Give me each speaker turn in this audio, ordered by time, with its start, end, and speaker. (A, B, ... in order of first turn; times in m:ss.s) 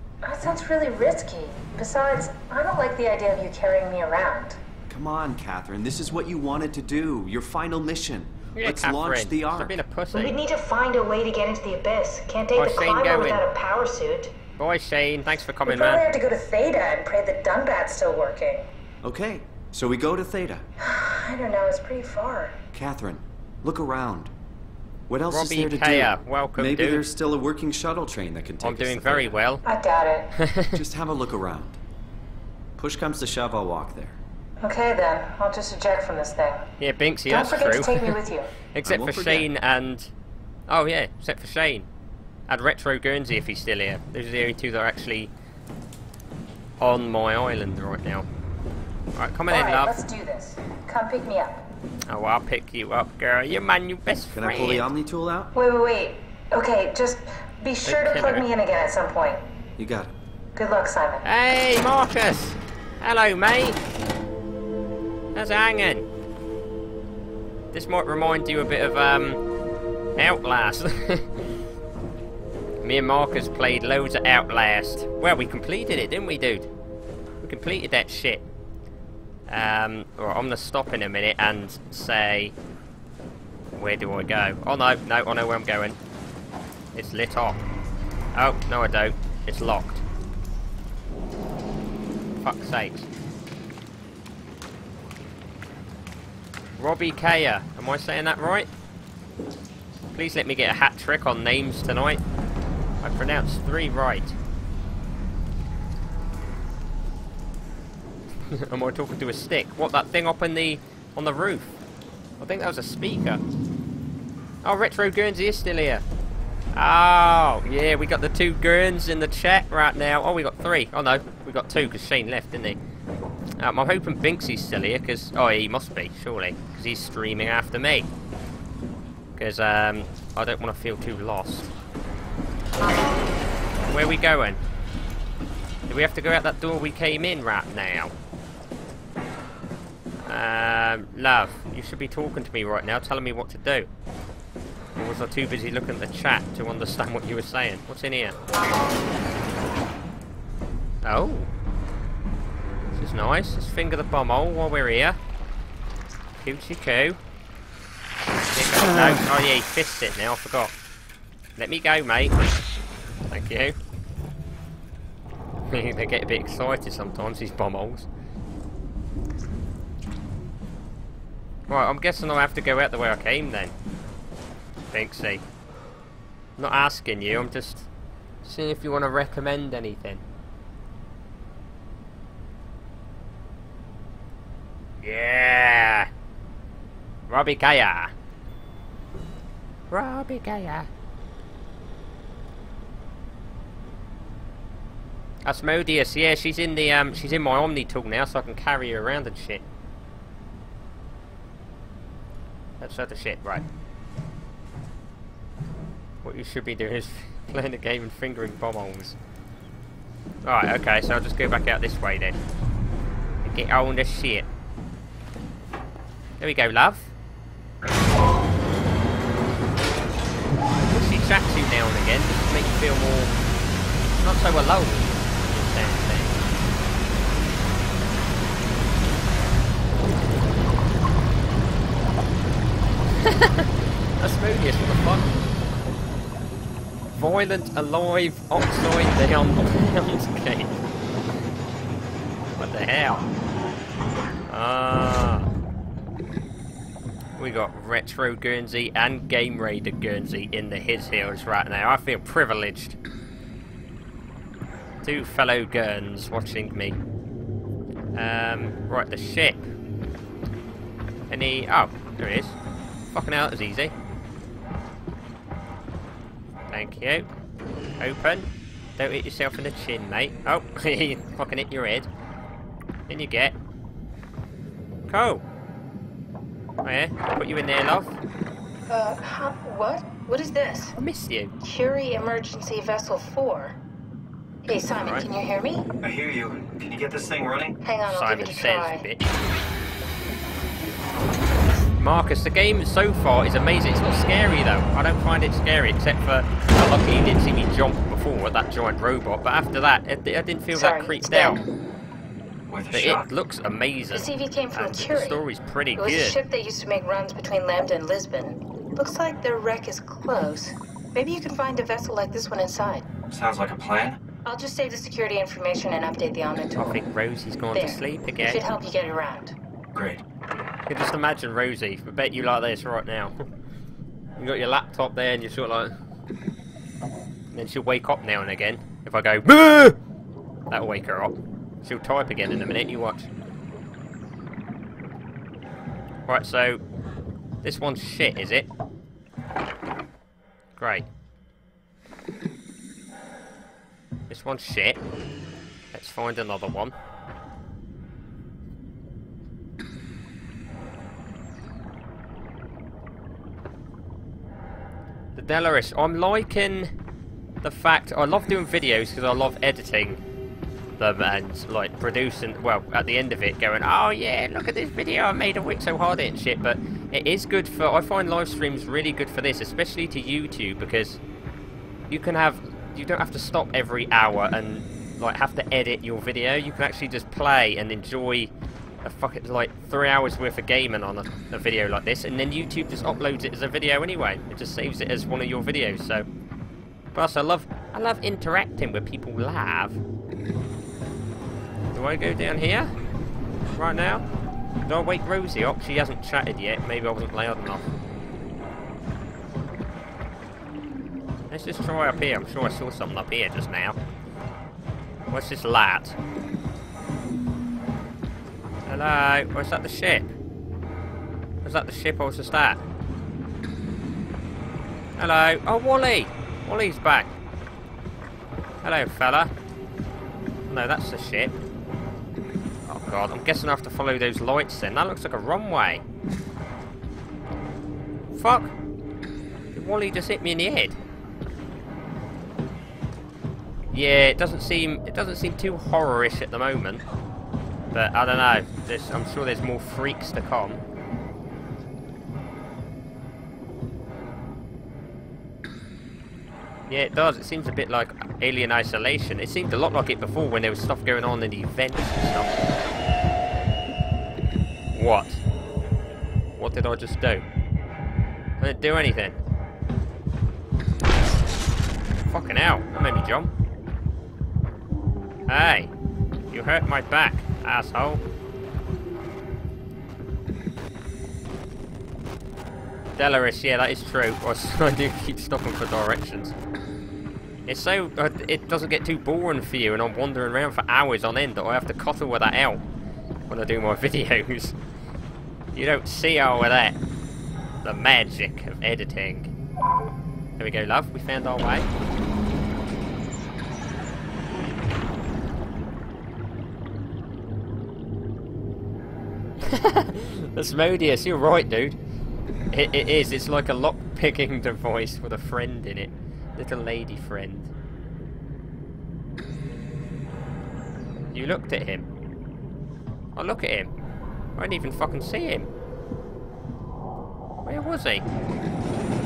0:00.2-0:04.6 A
0:04.9-0:09.8 B
0:08.6-0:10.4 C
0:10.1-0:14.3 A
0:12.6-0:13.5 C
0:14.6-0:16.0 C
0:15.7-0:18.7 A
0:19.0-0:20.7 B
0:20.8-0:22.6 A
0:22.7-0:24.3 B
0:25.1-0:29.4 B
0:25.3-0:27.0 C
0:28.6-0:29.6 C
0:29.6-0:30.3 A
0:30.4-0:30.8 C
0:30.7-0:31.8 B
0:32.8-0:34.2 B
0:34.6-0:36.7 A
0:36.8-0:38.2 C
0:37.3-0:38.5 A
0:38.7-0:40.1 C
0:38.8-0:39.5 B
0:40.7-0:41.9 C
0:42.5-0:45.3 C
0:46.8-0:48.3 C
0:49.2-0:50.0 C
0:49.5-0:51.7 A
0:52.1-0:54.9 C
0:54.3-0:55.5 B
0:55.5-0:59.4 A
0:57.8-0:58.5 C
0:59.8-1:00.1 B
1:00.6-1:01.2 A
1:01.2-1:03.8 C
1:05.4-1:06.1 C
1:07.7-1:09.4 C
1:10.2-1:11.5 C
1:12.8-1:16.7 C
1:17.4-1:18.4 C
1:19.5-1:22.6 C
1:23.8-1:26.0 C
1:27.0-1:27.6 C
1:28.3-1:30.0 C
1:32.4-1:33.1 C
1:36.8-1:38.7 C
1:40.1-1:42.2 C
1:43.0-1:44.4 C
1:48.5-1:51.8 C
1:52.4-1:53.4 C
1:54.6-1:56.0 C
1:56.7-2:02.8 C
2:03.6-2:08.1 C
2:09.4-2:11.7 C
2:13.9-2:14.6 C
2:15.9-2:18.1 C
2:20.3-2:23.9 C
2:25.0-2:28.4 C
2:31.0-2:31.5 C
2:32.9-2:35.2 C
2:36.4-2:37.2 C
2:38.5-2:40.7 C
2:41.6-2:42.4 C
2:43.3-2:43.8 C
2:45.7-2:48.1 C
2:51.7-2:53.8 C
2:54.9-2:55.4 C
2:56.6-2:57.9 C
2:58.4-3:00.2 C
3:05.0-3:06.1 C
3:07.3-3:08.1 C
3:09.9-3:10.9 C
3:15.4-3:19.6 C
3:22.8-3:23.6 C
3:26.2-3:29.2 C
3:30.4-3:32.4 C
3:33.4-3:34.5 C
3:36.4-3:37.1 C
3:40.9-3:43.3 C
3:44.2-3:46.4 C
3:53.2-3:55.3 C
3:57.1-4:00.7 C
4:02.6-4:03.2 C
4:04.5-4:05.5 C
4:07.4-4:13.0 C
4:15.0-4:17.0 C
4:18.1-4:19.7 C
4:21.3-4:22.6 C
4:23.1-4:23.9 C
4:26.7-4:27.3 C
4:28.0-4:28.5 C
4:29.0-4:32.1 C
4:33.1-4:33.6 C
4:35.1-4:35.4 C
4:36.8-4:38.2 C
4:38.9-4:41.0 A
4:41.0-4:41.5 C
4:41.6-4:43.8 A
4:44.7-4:45.9 A
4:45.0-4:45.3 C
4:46.0-4:47.8 D
4:47.8-4:49.1 A
4:48.1-4:49.2 C
4:52.0-5:01.6 C
5:00.7-5:01.7 A
5:02.7-5:03.3 D
5:02.9-5:06.4 C
5:04.1-5:05.4 A
5:06.0-5:13.1 A
5:13.3-5:14.2 D
5:14.4-5:17.0 A
5:16.8-5:18.6 C
5:17.7-5:19.6 A
5:20.0-5:20.2 D
5:20.9-5:23.3 C
5:24.4-5:26.0 C
5:27.5-5:30.0 C
5:30.7-5:33.3 C
5:36.3-5:36.8 C
5:37.6-5:38.7 C
5:40.8-5:41.1 C
5:44.3-5:45.0 C
5:45.9-5:47.0 C
5:55.4-5:56.9 C
5:57.6-6:00.2 C
6:01.0-6:11.2 C
6:12.1-6:18.5 C
6:19.0-6:26.3 C
6:27.1-6:30.0 C
6:31.9-6:32.9 C
6:33.8-6:34.2 C
6:34.8-6:37.9 C
6:41.5-6:44.0 C
6:45.3-6:46.2 C
6:48.9-6:50.3 C
6:51.6-6:52.8 C
6:55.2-6:57.3 C
6:58.8-6:59.5 C
7:00.7-7:01.6 C
7:02.9-7:06.0 C
7:08.3-7:08.7 C
7:09.7-7:11.0 C
7:13.9-7:17.0 C
7:17.9-7:20.8 C
7:26.9-7:32.7 C
7:34.9-7:35.4 C
7:36.6-7:37.4 C
7:38.6-7:39.4 C
7:42.3-7:43.5 C
7:45.5-7:45.9 C
7:46.5-7:48.2 C
7:53.2-7:56.6 C
7:57.7-8:02.8 C
8:03.5-8:04.8 C
8:05.7-8:07.0 C
8:07.8-8:09.5 C
8:10.6-8:11.9 C
8:19.6-8:22.0 C
8:22.7-8:27.7 C
8:31.3-8:32.1 C
8:33.4-8:33.9 C
8:34.6-8:35.7 C
8:37.6-8:38.3 C